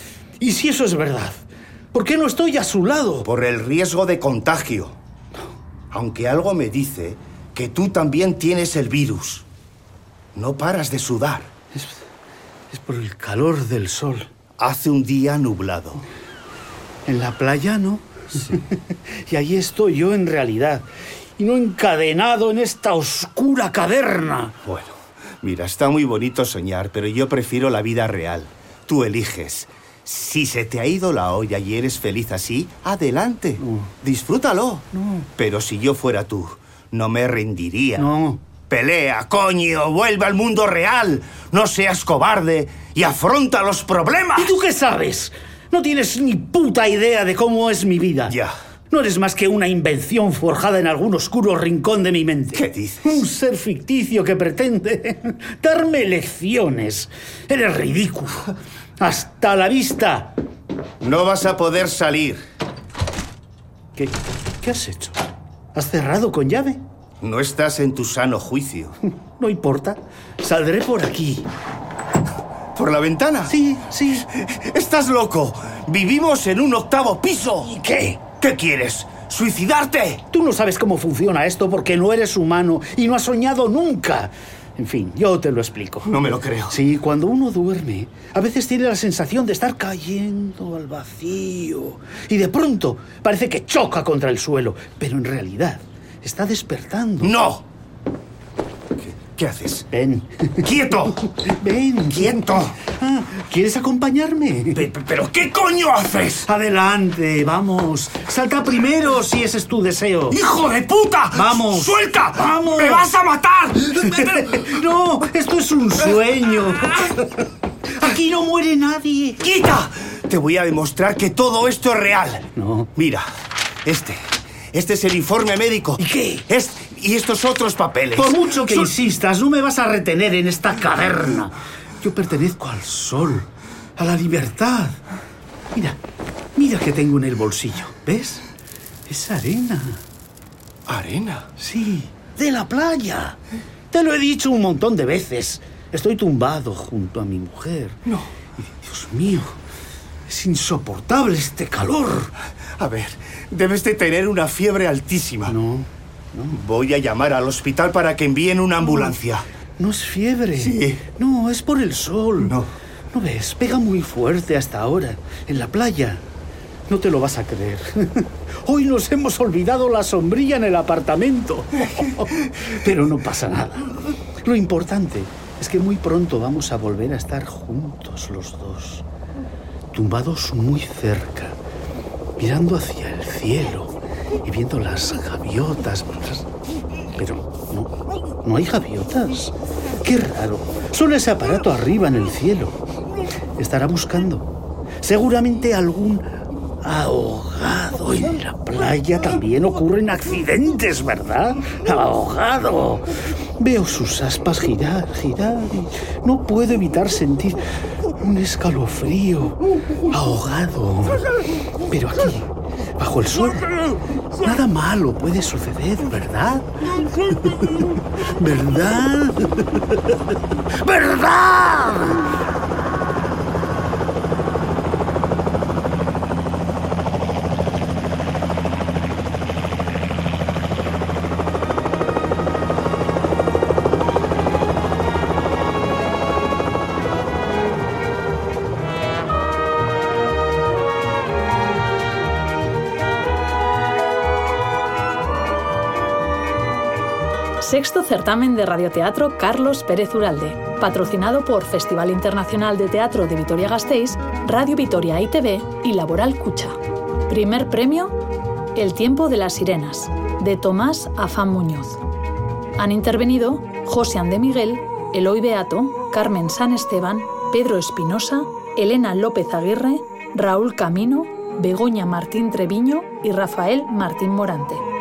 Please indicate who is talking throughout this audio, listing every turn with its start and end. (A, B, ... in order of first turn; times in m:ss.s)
0:00.4-0:03.3 A
0:03.2-0:05.0 B
0:05.9-0:09.5 B
0:10.4-0:11.5 B
0:11.7-0:12.0 A
0:12.7-0:14.3 A
0:14.6-0:16.1 B
0:17.1-0:24.6 A
0:24.6-0:38.1 B
0:33.6-0:33.9 A
0:34.9-0:35.3 A
0:38.0-0:38.4 A
0:38.7-0:44.6 B
0:44.4-0:48.4 A
0:48.3-0:48.6 B
0:48.9-1:00.4 A
0:52.5-0:53.2 B
1:01.0-1:02.4 B
1:04.0-1:05.2 A
1:05.7-1:06.8 A
1:07.2-1:09.0 B
1:09.1-1:11.5 A
1:12.8-1:13.6 B
1:13.5-1:14.3 A
1:14.2-1:17.7 B
1:17.7-1:18.2 A
1:18.3-1:20.2 B
1:20.3-1:26.2 A
1:26.0-1:26.8 B
1:26.7-1:37.4 A
1:37.2-1:37.7 B
1:39.0-1:39.9 B
1:39.9-1:44.9 A
1:40.6-1:41.2 B
1:42.1-1:42.8 B
1:44.8-1:46.5 B
1:46.4-1:50.4 A
1:50.3-1:54.7 B
1:51.3-1:53.1 A
1:54.0-1:57.3 A
1:57.9-1:59.5 A
1:59.4-2:03.3 B
2:02.6-2:02.9 A
2:03.8-2:08.9 B
2:06.0-2:06.4 A
2:08.2-2:15.0 A
2:15.7-2:16.0 A
2:16.6-2:18.5 A
2:19.1-2:20.0 A
2:20.9-2:21.5 B
2:21.6-2:23.4 A
2:23.9-2:28.0 A
2:28.0-2:28.3 B
2:28.6-2:29.6 A
2:30.3-2:32.3 A
2:32.8-2:35.6 B
2:35.5-2:36.6 A
2:36.5-2:39.5 B
2:39.8-2:42.6 A
2:40.6-2:41.0 B
2:42.4-2:42.7 B
2:43.1-2:46.2 A
2:46.9-2:59.1 A
2:59.9-3:01.6 A
3:02.4-3:06.5 A
3:07.2-3:12.8 A
3:13.6-3:23.1 A
3:23.6-3:27.6 A
3:28.2-3:31.3 A
3:31.8-3:40.2 A
3:40.8-3:42.2 A
4:07.6-4:18.1 C
4:18.8-4:22.0 C
4:22.8-4:34.8 C